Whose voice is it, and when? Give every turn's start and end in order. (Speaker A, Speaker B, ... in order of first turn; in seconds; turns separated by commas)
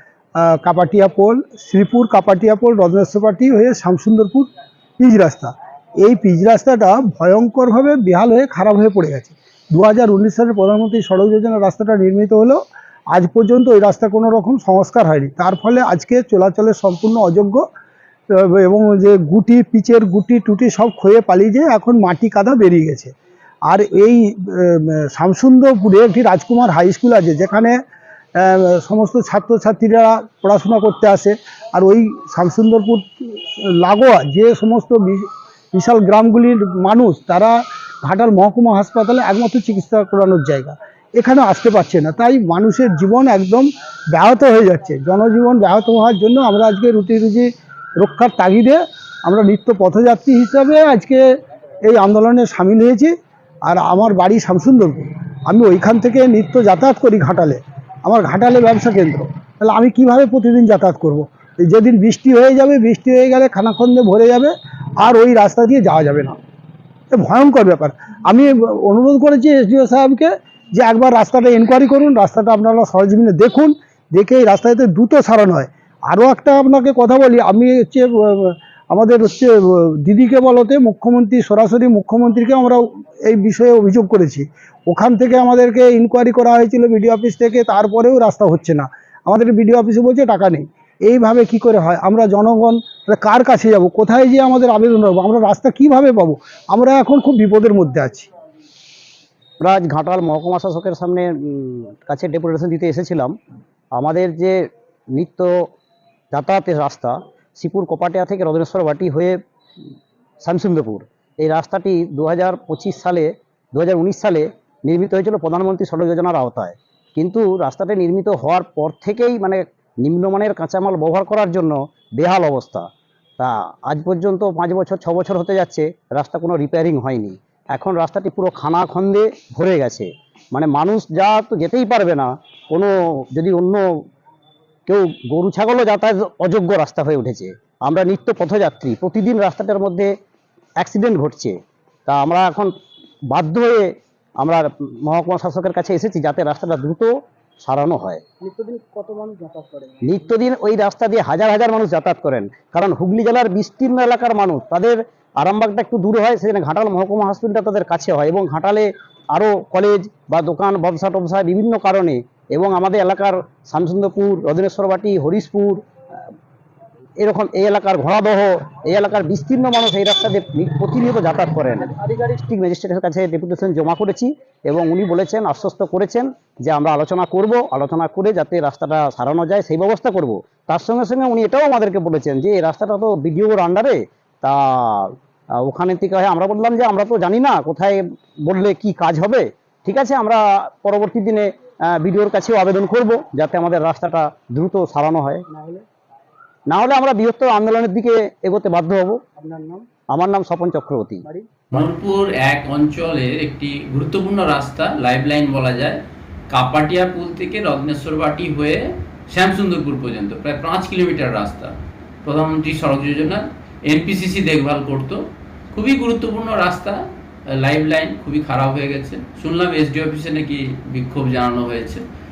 Speaker A: 0.4-12.6, Speaker A: 13.1-17.6, Speaker A: 18.3-23.1, Speaker A: 23.7-27.8, Speaker A: 28.4-51.2, Speaker A: 51.9-53.1, Speaker A: 53.7-66.4, Speaker A: 67.1-98.3, Speaker B: 99.6-103.3, Speaker B: 104.0-105.5, Speaker B: 106.3-109.4, Speaker B: 110.4-122.9, Speaker B: 123.4-133.8, Speaker B: 134.9-140.1, Speaker B: 140.8-142.7, Speaker B: 143.3-148.2, Speaker A: 148.4-150.3, Speaker B: 150.0-165.8, Speaker B: 167.2-195.4, Speaker A: 195.5-195.8, Speaker B: 196.7-199.2, Speaker A: 199.4-199.9, Speaker B: 200.1-201.2, Speaker C: 201.7-217.0, Speaker C: 217.6-222.0